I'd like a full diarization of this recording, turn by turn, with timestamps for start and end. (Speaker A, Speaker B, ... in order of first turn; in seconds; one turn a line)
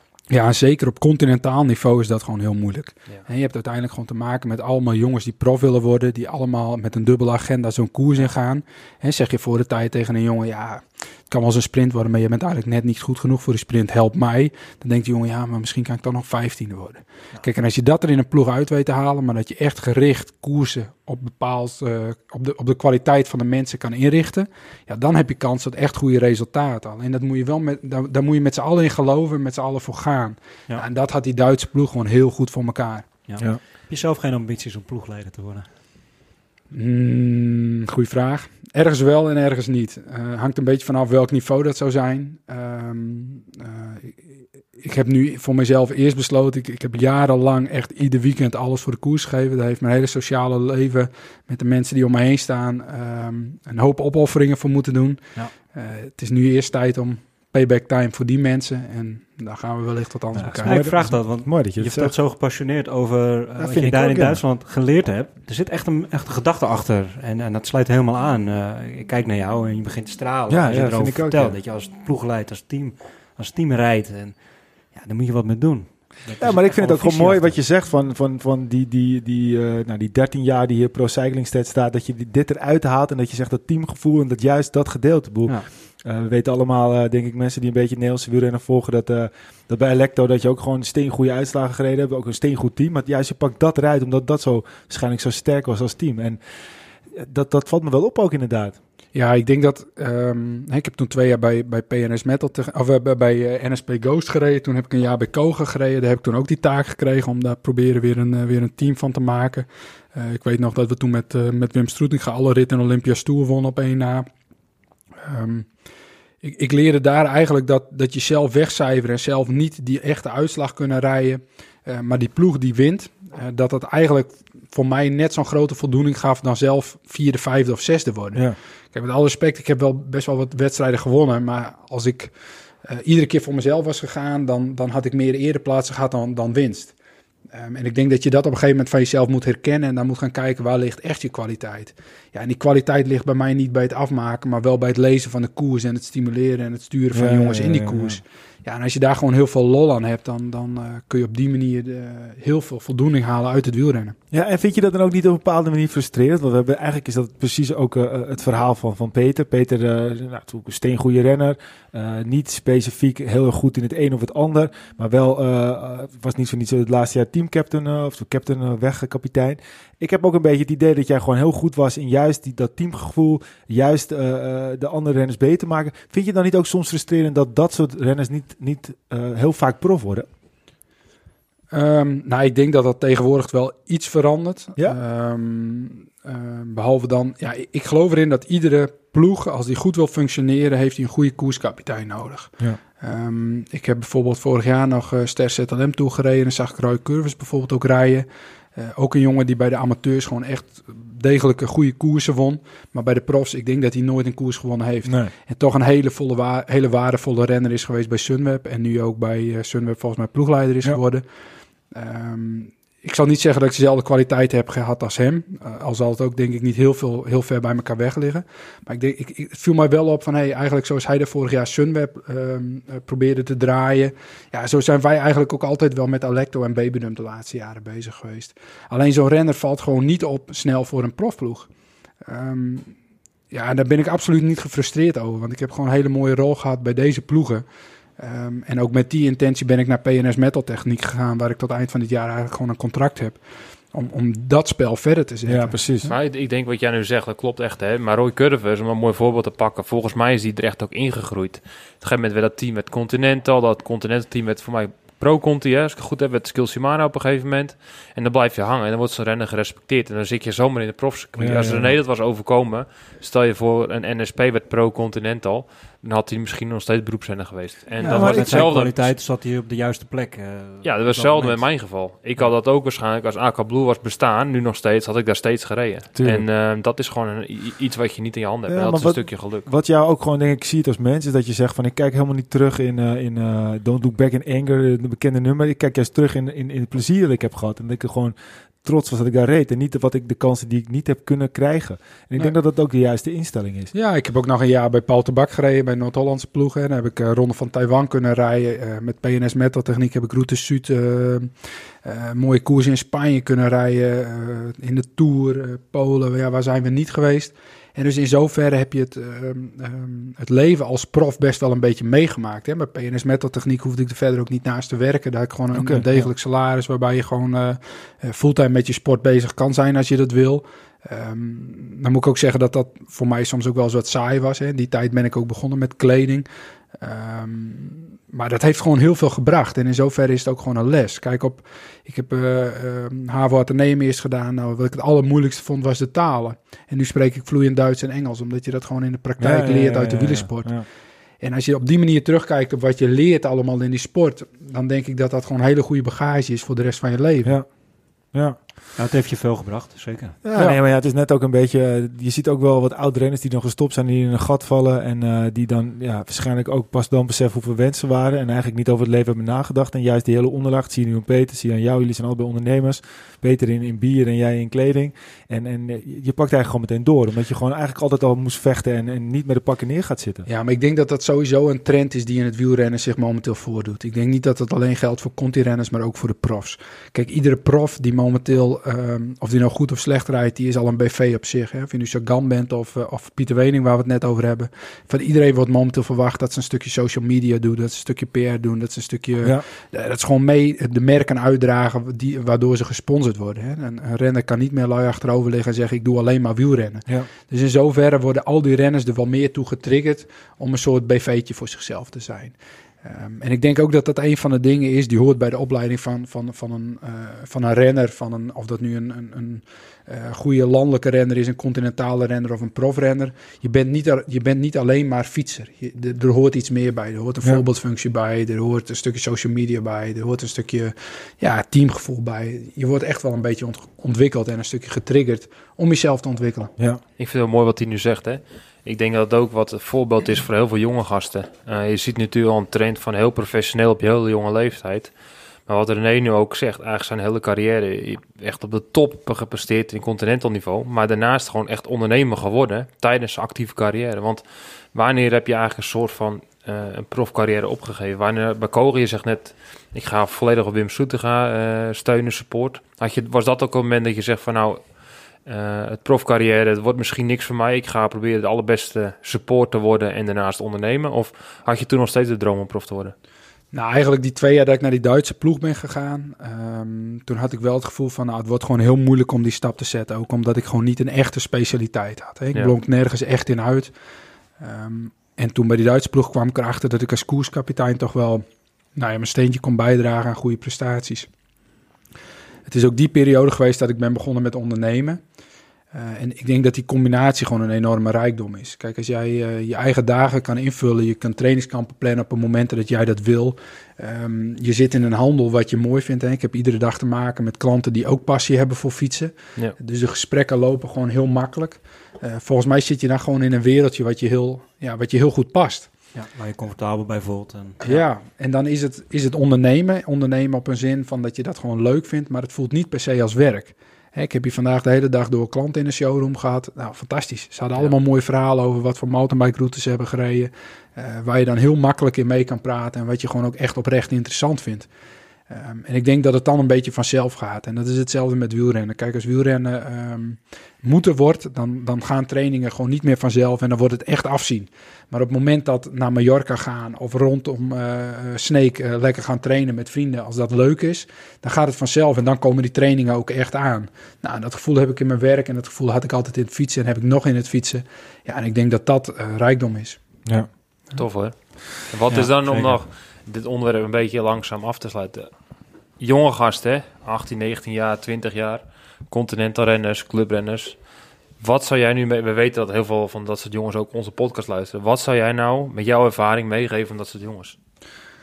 Speaker A: 0.3-33.1
Speaker B: 33.2-35.7
Speaker A: 36.7-60.8
Speaker C: 60.4-62.1
Speaker B: 60.5-77.6
Speaker C: 63.5-64.4
Speaker C: 70.5-71.6
Speaker C: 76.4-96.4
Speaker C: 97.1-98.8
Speaker A: 99.1-114.3
Speaker A: 115.2-115.7
Speaker A: 116.4-136.9
Speaker A: 137.5-154.2
Speaker C: 147.1-148.2
Speaker C: 154.3-180.3
Speaker A: 181.7-211.2
Speaker C: 205.0-205.3
Speaker A: 211.9-231.7
Speaker A: 232.2-232.9
Speaker A: 233.5-237.7
Speaker A: 238.2-243.4
Speaker A: 243.9-245.9
Speaker C: 245.4-246.1
Speaker D: 246.0-269.1
Speaker C: 261.4-262.0
Speaker C: 268.0-268.7
Speaker B: 268.0-271.7
Speaker D: 270.8-279.7
Speaker C: 276.1-276.5
Speaker C: 278.7-293.9
Speaker A: 293.9-340.9
Speaker C: 315.7-316.3
Speaker C: 339.4-340.9
Speaker A: 341.4-347.6
Speaker C: 347.4-347.7
Speaker C: 348.3-348.6
Speaker B: 348.9-350.4
Speaker C: 350.4-370.4
Speaker A: 370.4-426.7
Speaker D: 427.2-435.1
Speaker D: 435.7-454.9
Speaker D: 455.4-463.1
Speaker A: 463.7-473.9
Speaker A: 474.6-481.3
Speaker A: 482.6-485.2
Speaker A: 485.9-505.9
Speaker B: 506.1-507.8
Speaker A: 507.8-524.9
Speaker A: 525.5-550.0
Speaker D: 550.9-555.3
Speaker B: 552.1-552.8
Speaker D: 556.0-560.8
Speaker D: 561.4-567.5